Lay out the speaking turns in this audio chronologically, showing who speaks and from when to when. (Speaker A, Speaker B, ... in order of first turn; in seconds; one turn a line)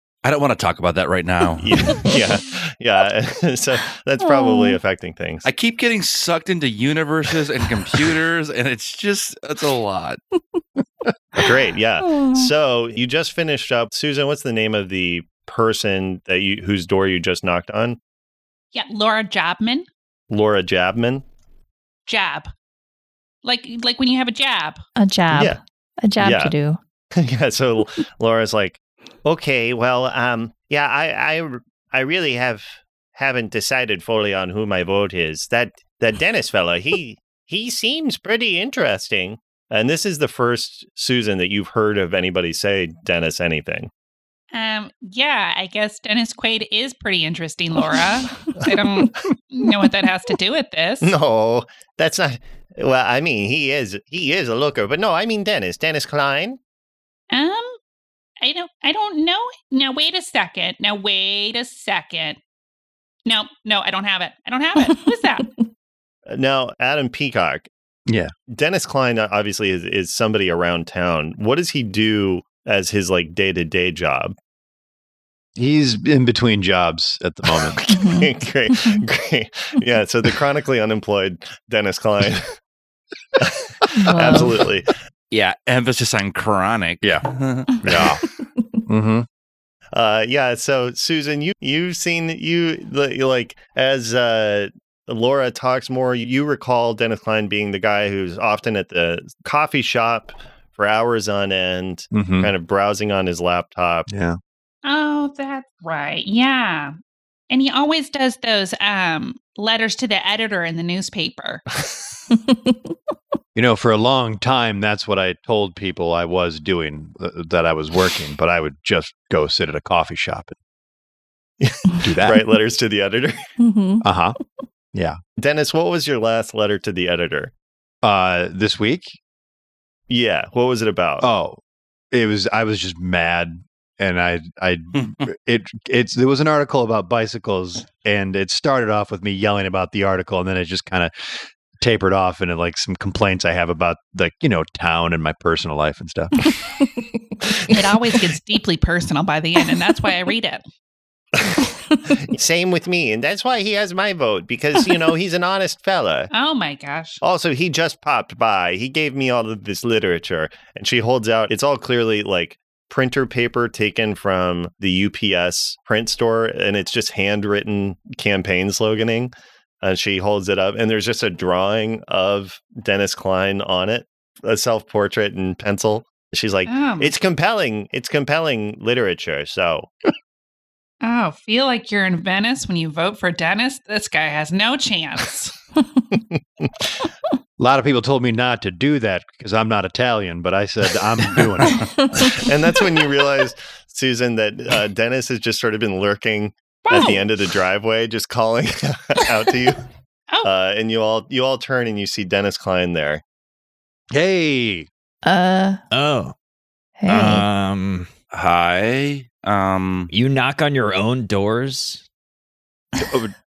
Speaker A: 0.2-2.1
Speaker B: 1.6-5.4
Speaker C: 4.2-4.8
Speaker A: 5.4-10.2
Speaker B: 11.4-18.0
Speaker C: 12.0-12.5
Speaker D: 18.7-19.9
Speaker B: 20.3-21.2
Speaker D: 22.1-22.5
Speaker D: 23.4-24.8
Speaker C: 25.0-26.8
Speaker B: 25.3-25.6
Speaker B: 26.2-26.5
Speaker B: 27.1-43.9
Speaker D: 44.5-51.1
Speaker B: 51.0-56.6
Speaker D: 57.3-57.8
Speaker D: 58.4-62.4
Speaker D: 63.2-65.5
Speaker B: 66.3-67.7
Speaker E: 68.1-68.3
Speaker B: 68.5-74.3
Speaker E: 75.5-77.8
Speaker B: 77.6-82.5
Speaker C: 77.9-79.0
Speaker B: 83.4-84.9
Speaker C: 83.9-84.5
Speaker A: 85.3-88.1
Speaker E: 87.8-88.2
Speaker E: 88.9-89.2
Speaker B: 89.9-104.1
Speaker E: 102.1-102.5
Speaker E: 104.1-104.4
Speaker D: 104.8-106.9
Speaker D: 107.5-111.6
Speaker C: 112.3-112.8
Speaker E: 113.5-120.5
Speaker B: 121.6-123.5
Speaker E: 122.0-122.4
Speaker C: 123.6-124.0
Speaker E: 124.0-124.3
Speaker E: 124.9-125.2
Speaker B: 125.4-127.5
Speaker E: 128.0-129.2
Speaker B: 130.1-131.3
Speaker E: 131.2-131.6
Speaker E: 132.1-146.3
Speaker A: 134.9-135.3
Speaker C: 146.8-147.7
Speaker D: 147.7-150.6
Speaker B: 152.3-156.3
Speaker D: 156.3-157.2
Speaker B: 157.2-179.9
Speaker D: 176.7-177.1
Speaker D: 181.0-185.5
Speaker B: 186.4-186.7
Speaker E: 187.6-191.9
Speaker C: 192.0-192.2
Speaker B: 192.2-199.8
Speaker D: 196.8-197.2
Speaker B: 200.4-203.2
Speaker E: 204.1-204.9
Speaker C: 205.2-205.8
Speaker F: 205.9-206.3
Speaker C: 207.0-207.4
Speaker F: 207.1-208.1
Speaker A: 208.3-210.1
Speaker F: 210.1-212.0
Speaker E: 213.0-213.3